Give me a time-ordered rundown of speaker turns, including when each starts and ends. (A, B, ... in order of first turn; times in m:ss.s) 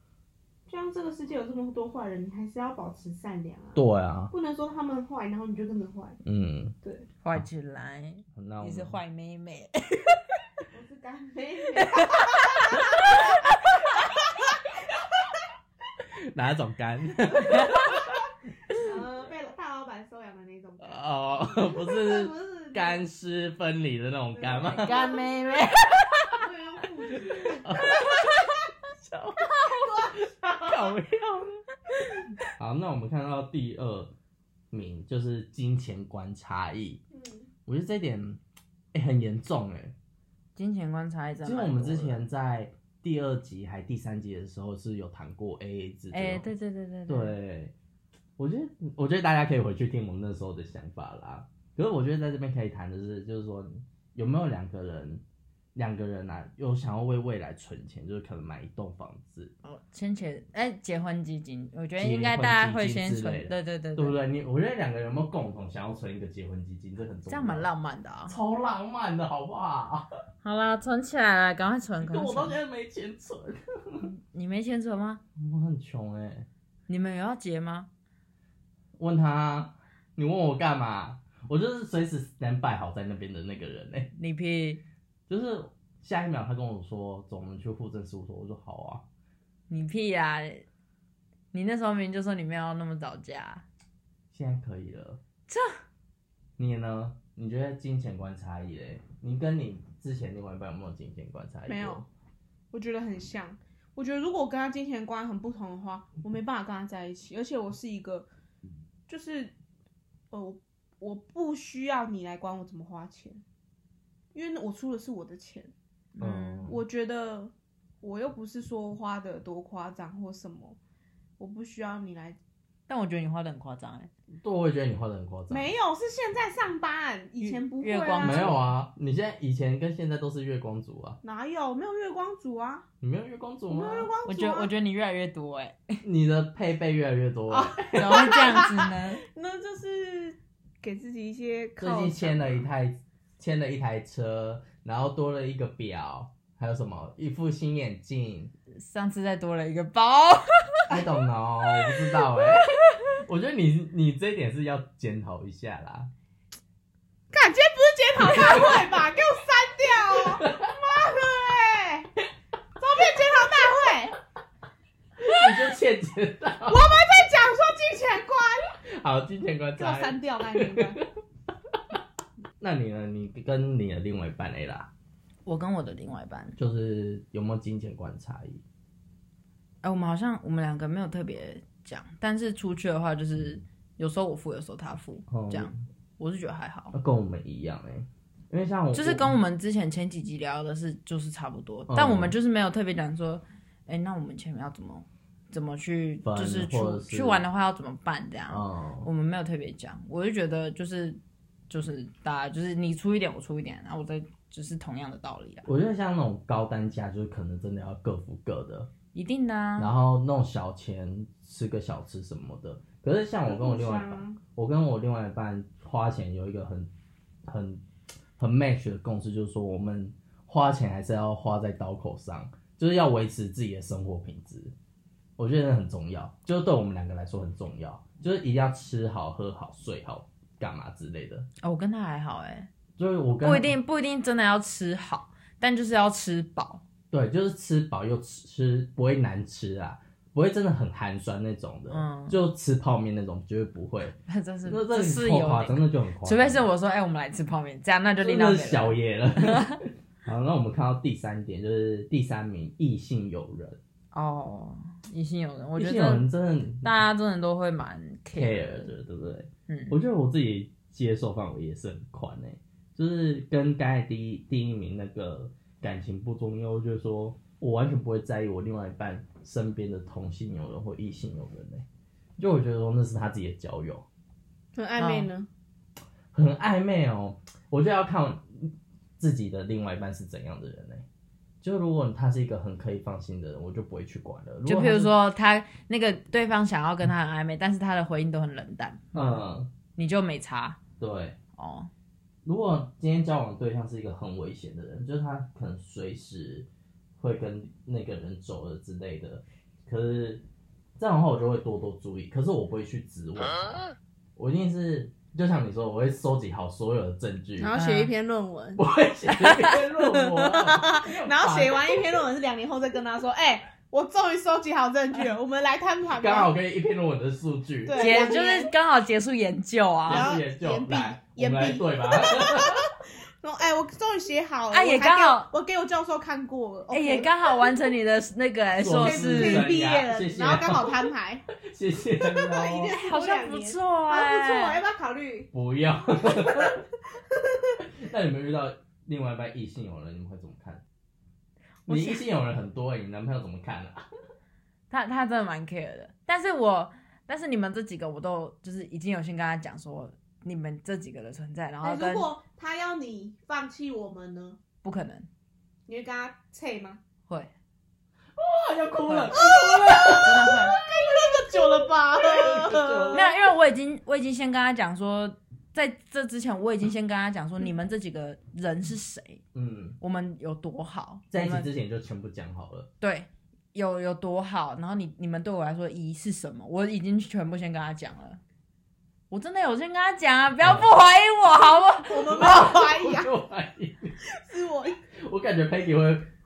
0:00.7-0:06.2 A
0:03.8-0:04.3 B
0:06.2-0:06.8 B
0:06.8-0:07.1 A
0:07.2-0:10.2 C
0:08.4-0:09.0 B
0:10.7-0:13.4 A
0:11.8-0:13.4 C
0:16.0-0:18.2 B
0:17.4-0:17.9 C
0:18.7-0:23.0 A
0:20.8-0:25.1 B
0:24.3-0:25.2 A
0:24.7-0:26.4 C
0:25.9-0:26.3 B
0:26.3-0:28.3 A
0:27.3-0:28.4 B
0:28.9-0:31.6 B
0:29.5-0:30.9 A
0:32.5-0:34.1 B
0:34.7-0:37.0 B
0:37.1-0:37.5 A
0:37.7-0:38.4 B
0:38.9-0:39.9 B
0:40.6-0:42.2 C
0:41.4-0:46.5 B
0:46.1-0:47.4 C
0:47.1-0:47.7 B
0:48.4-0:55.2 B
0:55.8-0:59.5 B
0:59.6-1:04.2 C
1:02.0-1:07.7 B
1:07.3-1:08.4 C
1:08.3-1:10.1 B
1:10.4-1:12.6 C
1:12.0-1:14.1 B
1:14.0-1:15.2 C
1:15.4-1:16.5 B
1:16.9-1:17.9 C
1:19.0-1:24.1 B
1:24.2-1:24.8 C
1:25.3-1:29.0 B
1:29.7-1:30.6 C
1:31.5-1:33.6 C
1:34.3-1:35.2 B
1:35.5-1:35.8 C
1:36.6-1:42.1 B
1:41.7-1:42.0 A
1:42.7-1:48.3 A
1:49.1-1:49.5 A
1:50.3-1:53.4 A
1:54.3-1:55.7 A
1:56.2-1:56.7 C
1:56.2-1:56.8 B
1:56.7-2:00.8 A
2:01.4-2:02.4 A
2:02.9-2:04.1 C
2:04.4-2:05.7 B
2:05.5-2:08.6 A
2:07.4-2:08.6 C
2:08.2-2:11.2 B
2:11.2-2:12.9 A
2:13.0-2:14.1 B
2:13.7-2:14.7 A
2:14.2-2:16.0 C
2:16.0-2:18.4 B
2:17.5-2:22.6 A
2:17.9-2:19.2 C
2:21.8-2:28.5 B
2:28.8-2:31.0 C
2:30.9-2:36.1 B
2:32.4-2:32.6 C
2:37.3-2:42.1 A
2:38.2-2:39.0 B
2:40.1-2:40.8 B
2:42.8-2:44.2 A
2:45.2-2:46.9 B
2:46.7-2:48.8 A
2:48.8-2:51.0 B
2:49.8-2:51.0 A
2:52.6-2:54.9 B
2:55.5-2:56.6 C
2:56.6-2:58.6 B
2:59.8-3:07.0 C
3:05.3-3:05.8 B
3:06.9-3:09.3 B
3:08.9-3:21.2 C
3:11.9-3:12.3 B
3:16.2-3:17.4 B
3:18.5-3:19.1 B
3:21.7-3:25.7 C
3:25.7-3:28.9 B
3:29.1-3:29.9 C
3:29.8-3:36.9 B
3:33.4-3:34.4 A
3:37.5-3:37.8 B
3:38.4-3:44.7 B
3:45.4-3:51.5 B
3:51.6-3:52.7 C
3:53.0-3:53.8 B
3:53.4-3:56.8 C
3:57.1-4:06.7 B
4:01.9-4:02.4 C
4:04.3-4:09.8 C
4:08.2-4:13.8 B
4:14.1-4:16.3 C
4:15.8-4:17.0 B
4:16.8-4:18.9 C
4:18.3-4:31.8 B
4:19.7-4:20.0 C
4:32.4-4:34.1 B
4:34.8-4:35.5 A
4:35.0-4:35.3 C
4:36.3-4:41.0 B
4:41.6-4:45.1 B
4:44.7-4:49.4 C
4:49.1-4:49.7 B
4:50.0-4:50.8 C
4:51.0-4:51.4 B
4:51.6-4:51.9 C
4:52.4-4:56.7 B
4:57.2-5:00.4 B
5:01.0-5:07.7 B
5:07.6-5:08.8 A
5:07.8-5:08.1 C
5:08.8-5:12.0 B
5:09.3-5:09.8 C
5:10.0-5:16.5 A
5:16.2-5:18.4 B
5:17.8-5:18.7 A
5:18.0-5:20.3 C
5:20.1-5:22.9 B
5:20.1-5:27.8 A
5:24.7-5:25.5 C
5:26.9-5:29.7 C
5:28.8-5:33.0 B
5:28.9-5:31.4 A
5:32.2-5:35.5 A
5:32.9-5:34.8 C
5:35.5-5:36.8 B
5:36.2-5:37.8 A
5:37.9-5:40.8 B
5:41.9-5:44.1 B
5:41.9-5:42.2 C
5:44.9-5:52.3 C
5:51.8-5:54.6 A
5:54.8-5:55.3 C
5:55.9-5:57.0 A
5:58.4-6:03.3 B
5:59.1-5:59.4 C
5:59.3-6:03.3 A
6:00.1-6:00.8 C
6:03.1-6:09.4 C
6:09.5-6:10.0 B
6:10.0-6:11.7 C
6:11.3-6:12.9 B
6:13.0-6:18.4 C
6:19.3-6:22.5 C
6:20.6-6:20.9 B
6:22.1-6:23.3 A
6:22.3-6:24.2 B
6:24.2-6:25.0 A
6:25.1-6:26.3 B